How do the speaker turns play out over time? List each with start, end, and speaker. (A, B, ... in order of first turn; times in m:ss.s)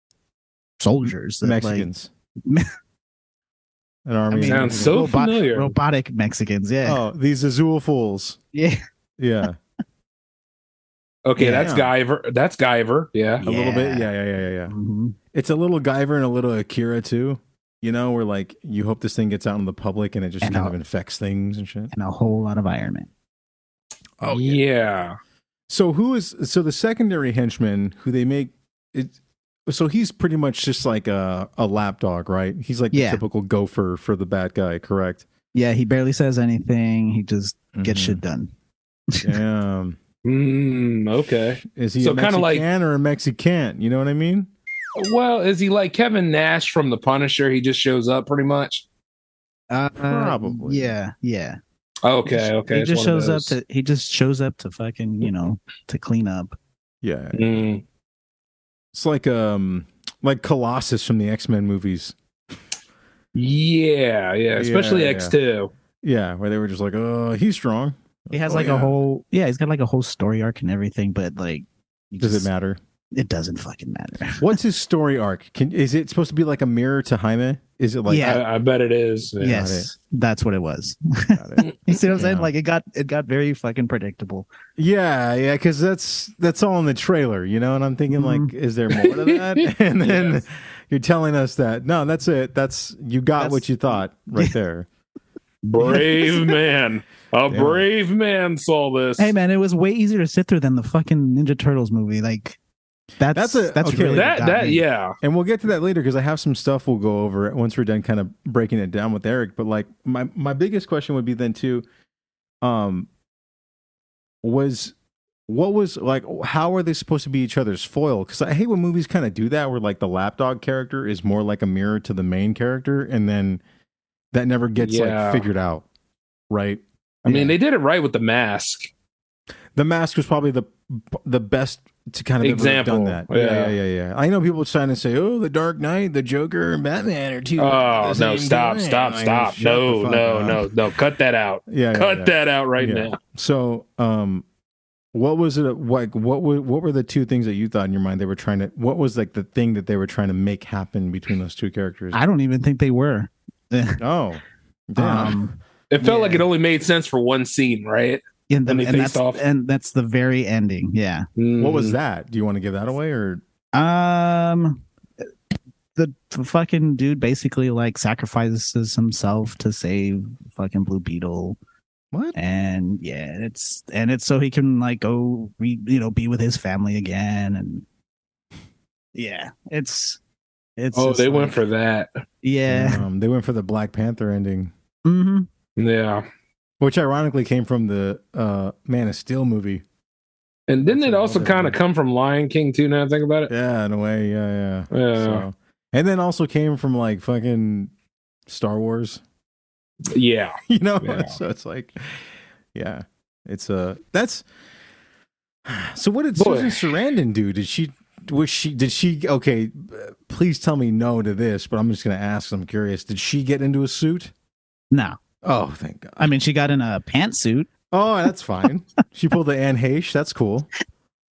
0:00.8-0:01.9 A
0:01.4-0:02.1 B
0:04.0-0:05.0 B
0:04.3-0:07.0 A
0:04.5-0:05.7 C
0:06.8-0:08.4 B
0:08.5-0:08.8 A
0:09.2-0:09.6 B
0:11.2-0:13.4 C
0:11.4-0:11.7 A
0:11.4-0:11.9 B
0:13.4-0:14.7 B
0:13.4-0:14.1 A
0:14.7-0:15.2 A
0:15.3-0:21.9 B
0:20.4-0:20.7 A
0:21.9-0:23.1 A
0:24.2-0:24.6 B
0:24.2-0:25.2 C
0:25.7-0:29.1 B
0:29.7-0:35.2 B
0:32.9-0:33.2 A
0:35.5-0:38.5 A
0:37.7-0:38.2 B
0:39.1-0:39.4 A
0:39.2-0:40.0 B
0:40.2-0:42.6 C
0:41.6-0:44.5 B
0:45.0-0:48.8 C
0:49.7-0:51.6 A
0:50.0-0:50.9 B
0:52.0-0:53.6 C
0:52.2-0:56.5 A
0:57.0-0:57.7 B
0:57.3-0:57.8 C
0:58.9-1:02.1 B
1:03.3-1:05.7 C
1:04.6-1:05.3 B
1:06.0-1:09.0 B
1:08.3-1:12.5 A
1:12.2-1:12.8 B
1:13.1-1:14.6 A
1:14.4-1:18.4 B
1:18.1-1:18.4 A
1:18.2-1:19.7 C
1:19.4-1:24.5 A
1:19.4-1:19.9 B
1:21.3-1:22.5 B
1:24.8-1:34.9 B
1:28.1-1:28.5 A
1:28.9-1:30.4 C
1:33.4-1:34.5 A
1:35.6-1:39.3 C
1:35.8-1:36.5 A
1:37.5-1:37.9 B
1:39.2-1:42.6 A
1:43.2-1:44.8 A
1:43.3-1:44.3 B
1:44.1-1:45.2 C
1:45.2-1:51.8 B
1:52.6-1:53.1 B
1:54.4-1:54.9 B
1:55.5-2:03.6 B
2:04.3-2:05.8 B
2:04.8-2:05.5 C
2:06.5-2:07.5 B
2:07.2-2:08.9 C
2:09.8-2:20.7 B
2:12.4-2:13.7 C
2:17.6-2:23.2 C
2:21.7-2:24.4 B
2:25.1-2:32.2 B
2:32.1-2:34.0 A
2:34.0-2:35.4 B
2:35.0-2:36.5 A
2:35.9-2:39.4 C
2:38.5-2:41.3 A
2:41.4-2:42.0 C
2:41.6-2:43.4 B
2:43.7-2:44.8 A
2:46.0-2:51.6 A
2:52.3-2:57.8 A
2:59.1-3:00.2 A
3:00.8-3:01.6 A
3:00.9-3:02.2 C
3:02.4-3:03.0 A
3:02.7-3:04.7 B
3:05.0-3:05.5 A
3:05.8-3:06.2 C
3:06.8-3:09.8 B
3:10.7-3:13.5 C
3:10.9-3:11.8 B
3:13.5-3:17.9 B
3:14.9-3:15.4 C
3:18.5-3:19.2 B
3:20.1-3:21.4 C
3:20.7-3:24.4 B
3:25.7-3:34.3 B
3:26.4-3:26.9 C
3:34.9-3:35.2 A
3:35.4-3:36.3 B
3:36.2-3:37.7 A
3:37.9-3:40.7 B